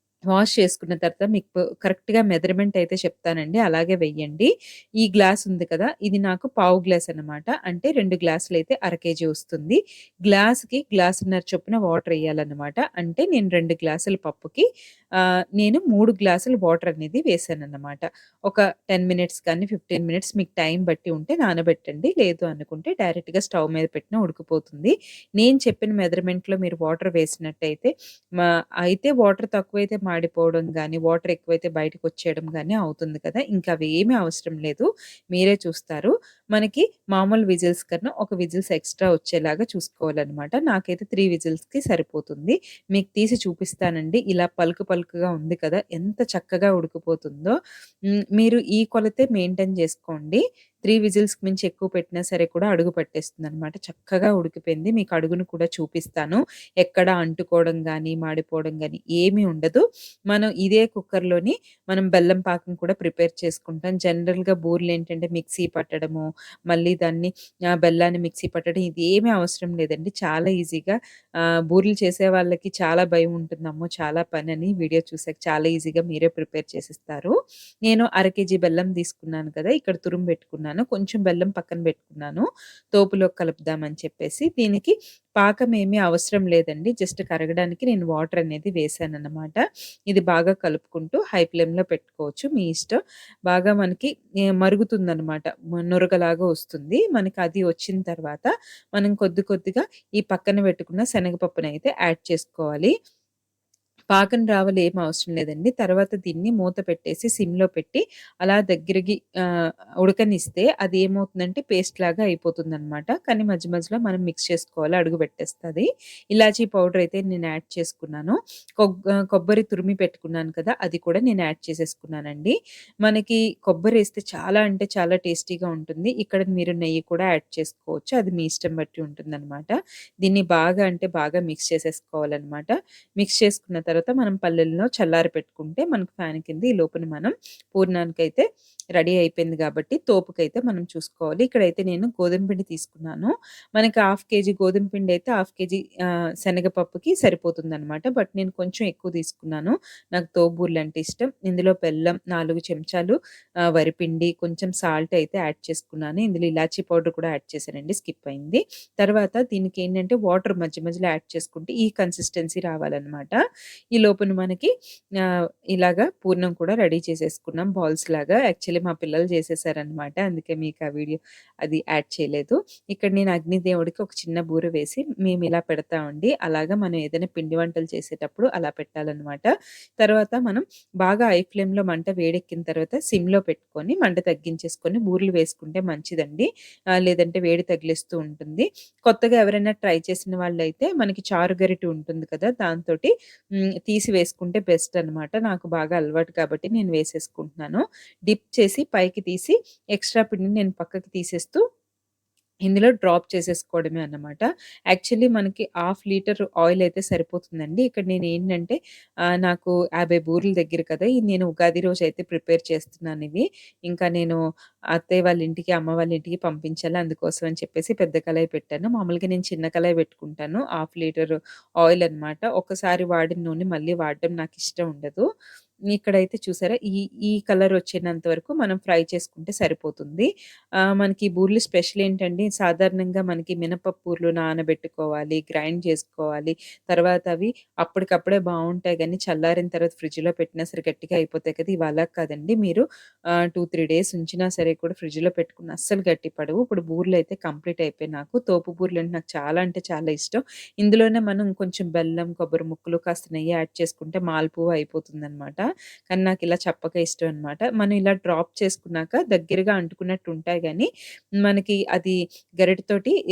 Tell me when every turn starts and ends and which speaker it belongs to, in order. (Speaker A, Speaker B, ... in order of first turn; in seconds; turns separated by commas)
Speaker A: 0.3-4.5, Speaker A: 5.0-14.7, Speaker A: 15.6-47.5, Speaker A: 48.4-71.0, Speaker A: 71.7-77.3, Speaker A: 77.9-82.5, Speaker A: 83.0-89.6, Speaker A: 90.1-94.1, Speaker A: 94.6-102.9, Speaker A: 104.1-109.2, Speaker A: 110.0-138.4, Speaker A: 139.0-145.8, Speaker A: 146.4-153.2, Speaker A: 153.8-163.4, Speaker A: 163.9-164.7, Speaker A: 165.8-179.5, Speaker A: 180.0-186.5, Speaker A: 187.0-193.1, Speaker A: 193.9-201.6, Speaker A: 202.7-208.8, Speaker A: 209.4-214.4, Speaker A: 215.0-225.2, Speaker A: 225.9-230.3, Speaker A: 231.0-242.8, Speaker A: 243.5-260.9, Speaker A: 261.4-263.1